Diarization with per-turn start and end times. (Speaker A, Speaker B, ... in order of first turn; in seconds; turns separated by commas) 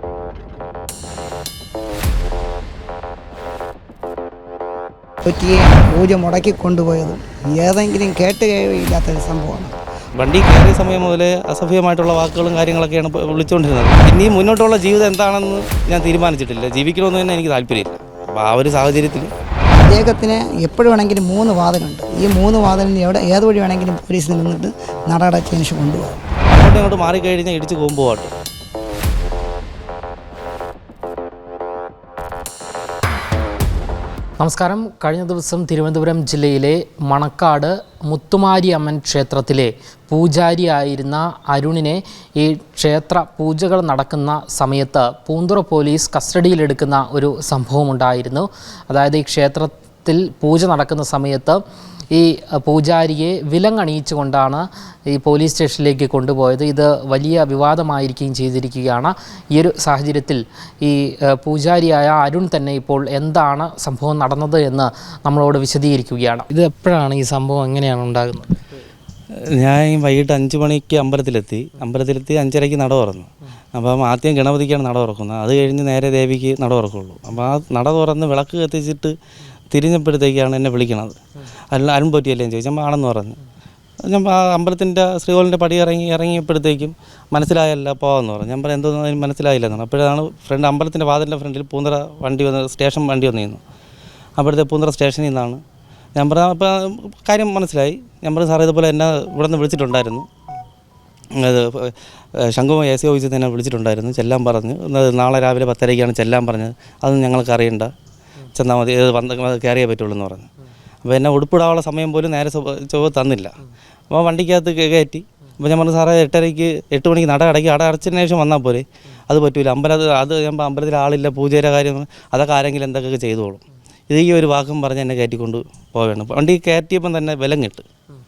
Speaker A: 5.2-9.8, Speaker B: 10.2-19.3, Speaker A: 19.7-26.2, Speaker B: 26.5-28.3, Speaker C: 34.4-51.6, Speaker C: 52.1-68.6, Speaker B: 69.4-79.1, Speaker B: 79.7-81.2, Speaker B: 81.7-83.4, Speaker B: 84.0-93.6, Speaker B: 94.4-95.6, Speaker B: 96.2-100.3, Speaker B: 101.3-107.9, Speaker B: 108.5-110.5, Speaker B: 111.0-113.5, Speaker B: 114.1-127.8